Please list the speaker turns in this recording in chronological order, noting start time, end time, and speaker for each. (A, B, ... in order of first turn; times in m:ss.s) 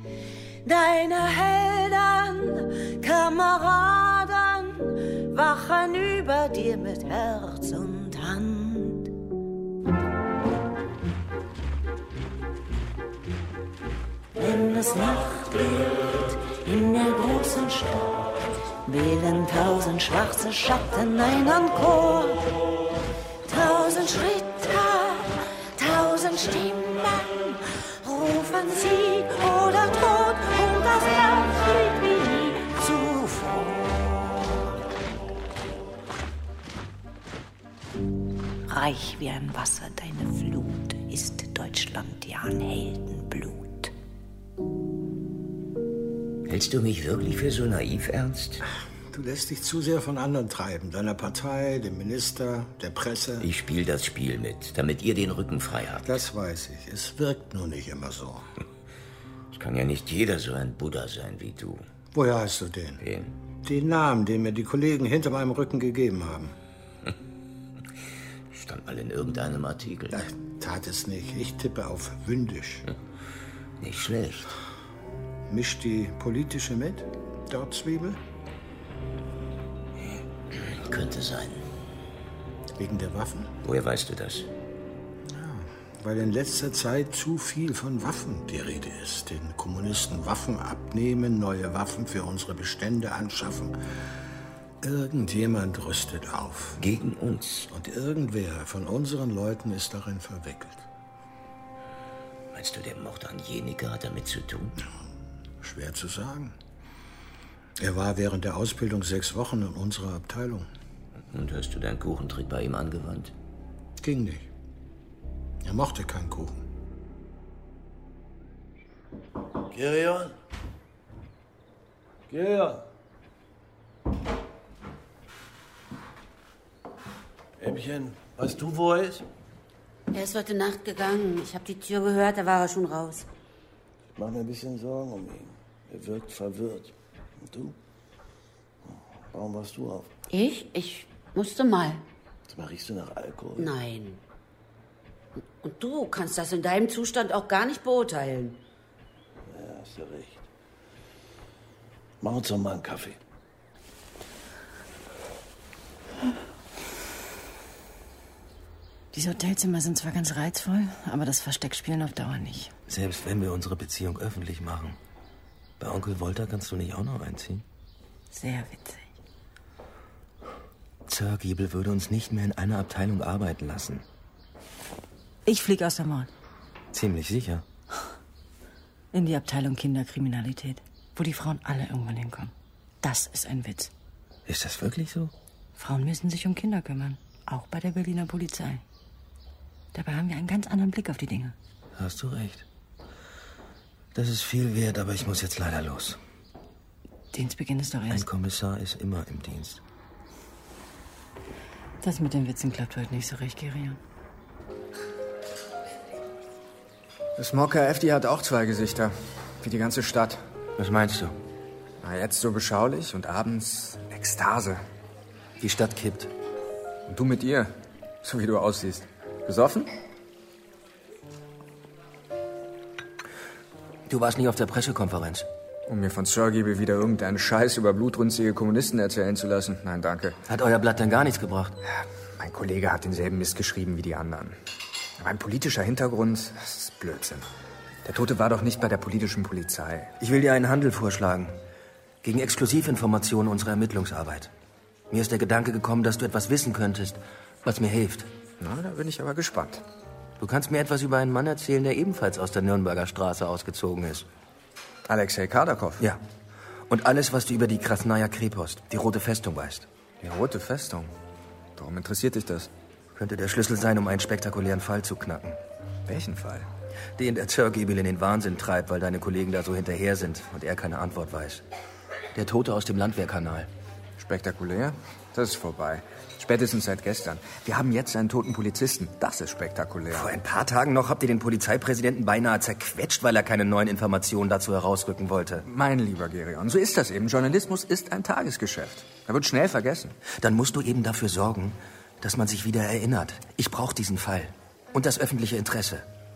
0:00.6-0:09.1 A
0:14.4-0:18.3 A
0:18.8-0:22.5 A
0:23.4-0:34.2 A
0:38.7-0:43.9 A
0:46.4-0:48.6 B
0:48.7-0:53.5 C
0:53.4-0:56.1 B
0:56.0-0:58.5 C
0:59.5-1:01.8 B
1:02.1-1:03.0 C
1:03.0-1:03.3 B
1:03.6-1:06.5 C
1:08.5-1:10.2 B
1:10.1-1:12.8 C
1:13.8-1:14.5 B
1:15.5-1:18.2 C
1:20.0-1:21.6 B
1:22.8-1:23.5 C
1:23.6-1:24.5 B
1:25.2-1:33.7 C
1:34.8-1:36.8 C
1:36.8-1:37.7 B
1:37.7-1:40.8 C
1:42.5-1:44.8 B
1:45.6-1:46.5 C
1:47.8-1:50.7 C
1:51.3-1:53.3 B
1:54.0-1:54.4 C
1:55.6-1:56.6 C
1:59.7-2:00.4 D
2:02.3-2:02.8 D
2:07.6-2:09.2 D
2:10.1-2:13.3 E
2:14.2-2:16.9 D
2:17.4-2:17.8 D
2:18.9-2:20.1 D
2:20.3-2:22.0 E
2:22.5-2:23.7 D
2:23.6-2:24.2 E
2:25.6-2:28.6 E
2:29.5-2:30.4 D
2:32.2-2:33.2 D
2:39.1-2:42.7 F
2:42.9-2:45.0 G
2:45.8-2:47.6 G
2:48.3-2:49.1 F
2:51.1-2:54.0 G
2:55.4-2:56.3 F
2:56.9-2:57.6 G
2:59.1-3:03.9 F
3:04.4-3:05.3 G
3:05.8-3:08.8 F
3:09.9-3:11.6 F
3:12.0-3:12.6 G
3:14.1-3:16.2 G
3:17.3-3:18.2 F
3:18.1-3:19.8 G
3:22.0-3:24.0 F
3:27.4-3:30.4 H
3:30.8-3:31.3 G
3:32.0-3:34.8 H
3:35.6-3:36.3 G
3:37.1-3:37.7 H
3:38.2-3:39.9 H
3:44.1-3:45.5 G
3:45.9-3:50.4 H
3:50.5-3:51.8 G
3:51.9-3:54.6 H
3:55.2-3:57.4 H
3:58.0-4:00.1 H
4:00.2-4:01.6 G
4:02.2-4:04.5 G
4:05.1-4:08.3 G
4:08.6-4:09.8 H
4:10.4-4:14.2 G
4:15.1-4:16.0 H
4:16.9-4:19.9 G
4:20.2-4:21.1 H
4:21.8-4:22.7 H
4:23.2-4:25.6 G
4:26.1-4:26.7 H
4:27.2-4:31.6 G
4:32.3-4:33.7 G
4:34.2-4:40.4 H
4:40.1-4:45.6 G
4:45.6-4:50.2 H
4:50.2-4:56.0 G